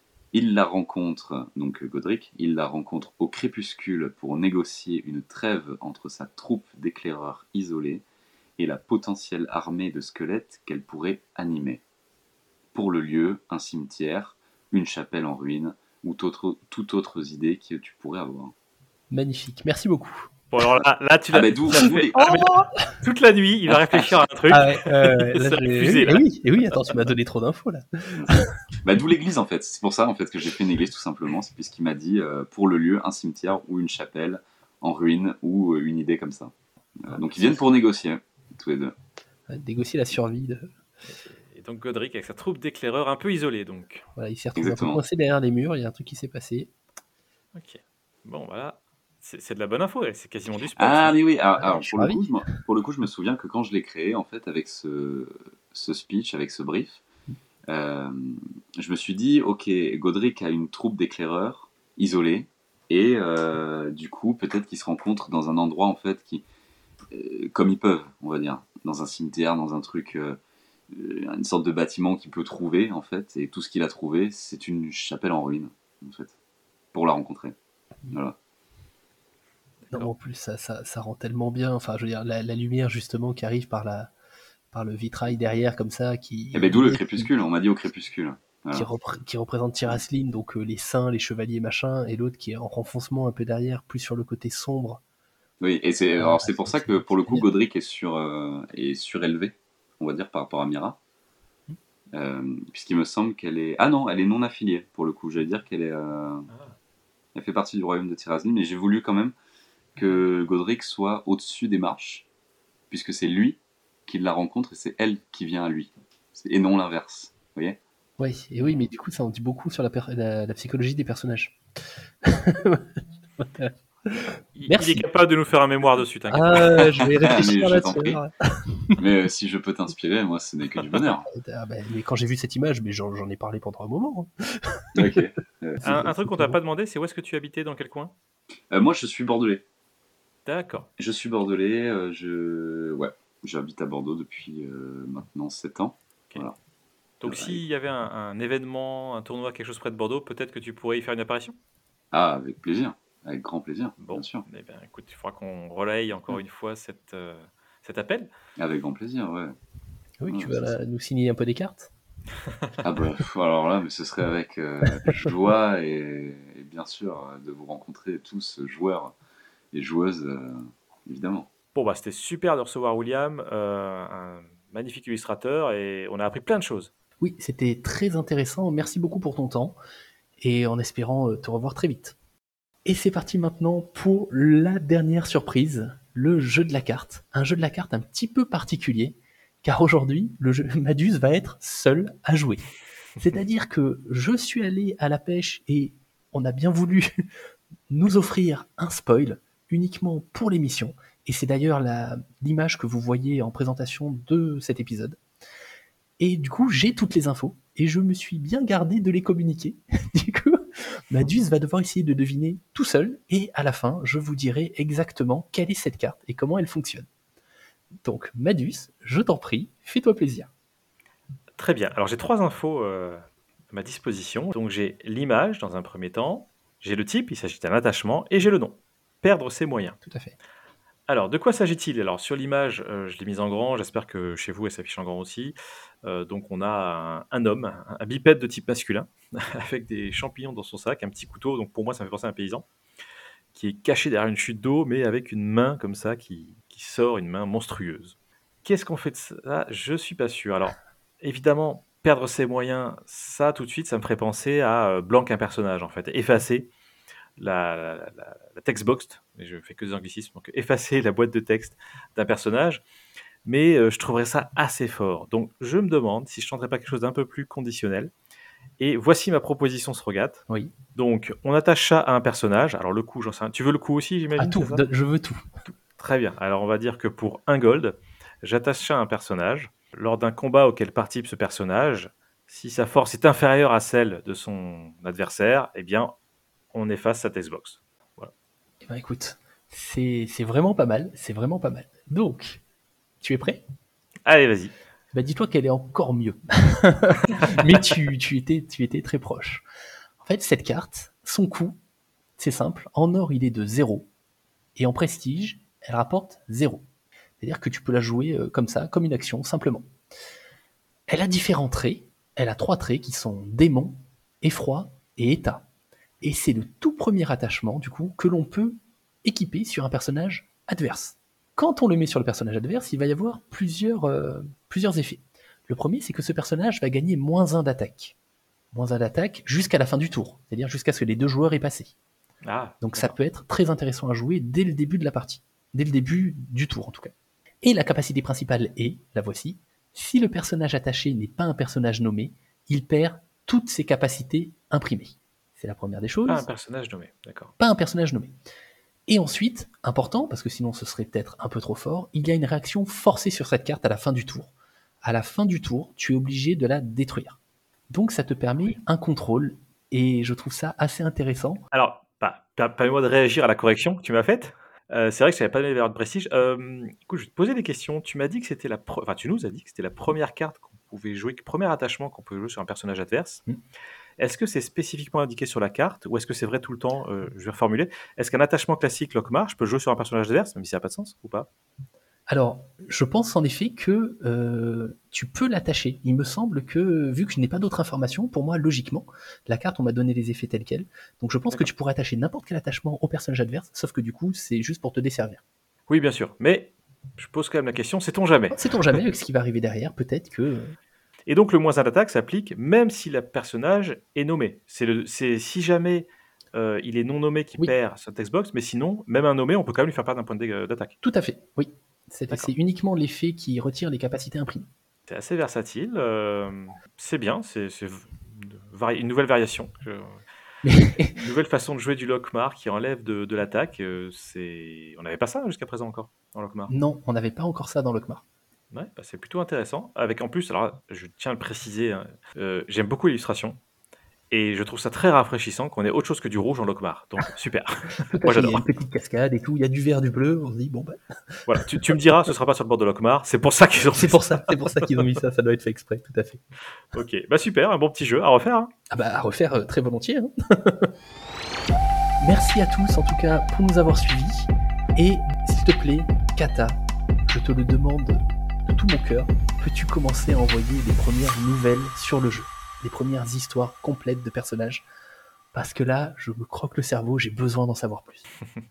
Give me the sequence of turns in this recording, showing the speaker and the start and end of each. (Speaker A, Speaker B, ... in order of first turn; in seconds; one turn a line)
Speaker A: 0.3-8.0
Speaker A: 8.6-11.8
Speaker A: 12.7-18.5
Speaker B: 19.1-20.3
Speaker C: 20.5-26.9
Speaker A: 21.3-22.3
Speaker B: 21.7-22.6
Speaker A: 23.7-24.2
Speaker B: 24.5-28.5
Speaker A: 28.2-39.0
Speaker B: 37.1-37.6
Speaker B: 39.5-40.7
Speaker C: 41.1-44.0
Speaker B: 44.2-46.7
Speaker A: 44.6-45.0
Speaker C: 47.5-51.2
Speaker A: 50.8-57.0
Speaker B: 51.6-52.5
Speaker A: 57.7-66.4
Speaker A: 67.1-70.4
Speaker A: 70.9-76.3
Speaker A: 76.9-77.5
Speaker A: 78.1-78.3
Speaker B: 79.9-84.1
Speaker B: 84.7-87.3
Speaker A: 86.5-88.9
Speaker B: 88.7-95.0
Speaker A: 95.6-101.0
Speaker B: 96.2-97.5
Speaker A: 102.1-106.5
Speaker A: 107.3-109.3
Speaker A: 110.0-112.3
Speaker A: 112.9-117.8
Speaker B: 118.2-121.6
Speaker B: 122.2-125.1
Speaker C: 124.5-127.0
Speaker B: 126.3-129.0
Speaker A: 127.2-128.2
Speaker A: 128.9-131.3
Speaker B: 130.9-135.2
Speaker A: 134.9-135.9
Speaker C: 135.8-138.1
Speaker B: 135.8-136.6
Speaker A: 138.7-139.6
Speaker C: 140.4-140.9
Speaker A: 141.0-146.6
Speaker C: 147.2-151.6
Speaker A: 147.2-147.6
Speaker A: 152.1-154.4
Speaker C: 154.0-158.3
Speaker A: 158.6-159.6
Speaker B: 160.2-161.9
Speaker A: 160.3-160.8
Speaker A: 162.8-169.1
Speaker A: 169.7-171.5
Speaker C: 171.8-176.9
Speaker B: 177.2-179.8
Speaker B: 180.4-182.2
Speaker B: 182.8-192.7
Speaker B: 193.2-197.1
Speaker B: 197.9-205.2
Speaker B: 206.2-217.1
Speaker B: 218.0-220.5
Speaker C: 221.6-230.0
Speaker B: 230.0-230.3
Speaker C: 231.1-242.7
Speaker C: 243.5-256.7
Speaker C: 257.4-262.8
Speaker C: 263.4-268.1
Speaker C: 268.8-270.4
Speaker C: 270.9-274.9
Speaker B: 274.4-275.4
Speaker C: 275.7-286.1
Speaker C: 286.7-288.3
Speaker B: 288.9-292.6
Speaker B: 293.2-293.6
Speaker C: 294.3-294.7
Speaker B: 295.1-299.6
Speaker B: 300.2-301.8
Speaker B: 302.4-304.1
Speaker B: 304.8-306.8
Speaker B: 307.4-309.9
Speaker B: 311.1-315.7
Speaker B: 316.2-328.2
Speaker B: 328.7-331.9
Speaker C: 332.4-333.2
Speaker B: 332.8-337.1
Speaker B: 337.6-346.4
Speaker C: 346.3-347.5
Speaker B: 347.6-348.3
Speaker B: 349.1-354.5
Speaker B: 355.0-357.4
Speaker B: 357.9-361.6
Speaker C: 361.7-373.4
Speaker C: 374.2-381.5
Speaker B: 382.3-395.4
Speaker C: 395.9-399.0
Speaker B: 398.5-400.8
Speaker C: 401.3-410.9
Speaker B: 411.0-414.7
Speaker C: 415.1-420.2
Speaker B: 420.6-421.1
Speaker C: 421.1-426.7
Speaker B: 426.7-428.2
Speaker C: 428.7-433.6
Speaker C: 434.3-438.6
Speaker B: 438.1-441.8
Speaker C: 441.5-444.5
Speaker B: 443.9-446.4
Speaker C: 446.9-448.7
Speaker B: 448.9-450.9
Speaker B: 452.2-456.8
Speaker B: 457.3-464.9
Speaker B: 465.5-468.2